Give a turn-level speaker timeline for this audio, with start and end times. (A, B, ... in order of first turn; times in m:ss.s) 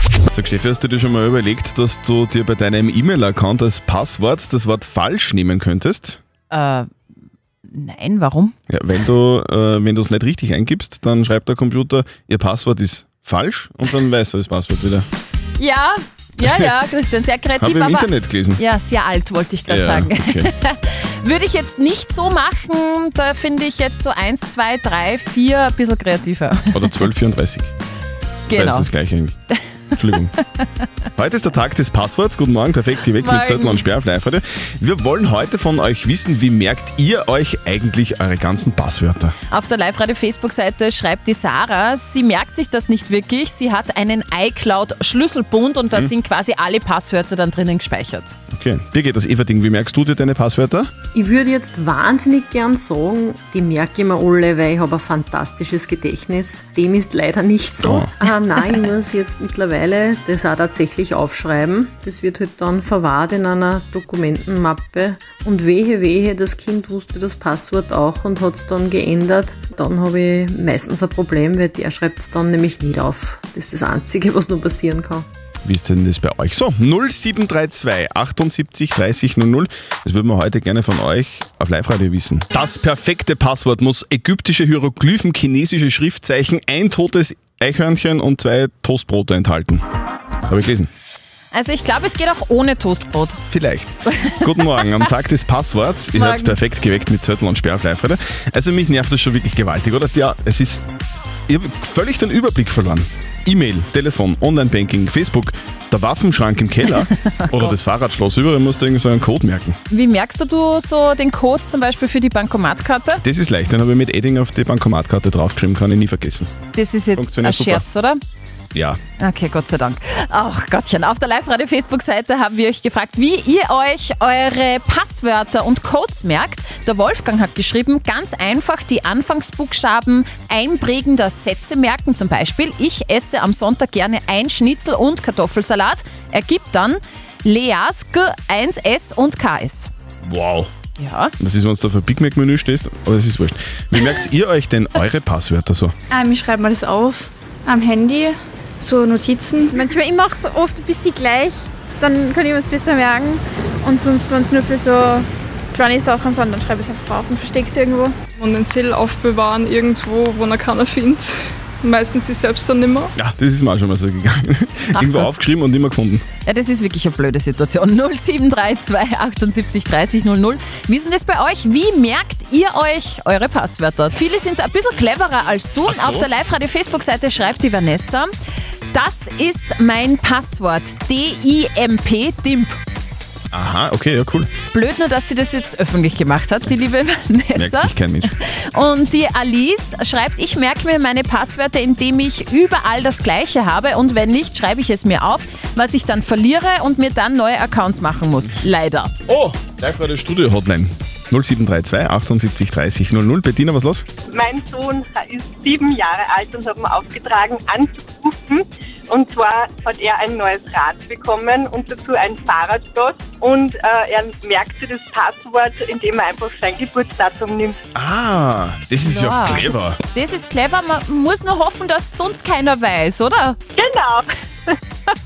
0:00.3-0:06.2 A
0:06.5-0:06.9 B
0:07.7-0:08.5 B
0:08.7-0:15.1 A
0:15.6-0:26.9 B
0:16.4-0:16.7 A
0:17.6-0:18.6 A
0:19.7-0:20.5 A
0:26.7-0:27.7 A
0:28.5-0:28.9 B
0:28.5-0:29.4 A
0:30.0-0:30.3 A
0:31.2-0:39.4 A
0:33.2-0:33.9 B
0:39.5-0:48.4 B
0:48.5-0:50.9 A
0:51.1-1:15.2 C
0:57.8-0:58.1 A
1:15.6-1:29.8 A
1:30.5-1:30.9 A
1:31.5-1:33.4 B
1:33.5-1:40.8 A
1:36.2-1:36.6 B
1:41.5-1:49.8 A
1:49.9-1:53.2 B
1:53.2-1:56.5 A
1:56.7-1:58.2 B
1:57.2-1:57.8 A
1:58.7-1:59.0 A
1:59.2-2:19.9 B
2:20.2-2:20.7 A
2:21.0-2:21.3 B
2:21.4-2:25.9 A
2:26.2-2:29.6 D
2:29.8-2:38.2 E
2:38.4-2:43.1 F
2:43.2-2:46.2 A
2:45.0-2:45.3 B
2:46.4-2:58.3 B
2:55.9-2:56.3 A
2:58.9-3:02.8 B
3:03.5-3:04.5 A
3:04.7-3:19.1 B
3:07.6-3:08.3 A
3:19.3-3:24.0 A
3:24.3-3:37.8 G
3:38.0-3:40.0 A
3:39.0-3:43.6 B
3:43.8-3:44.8 G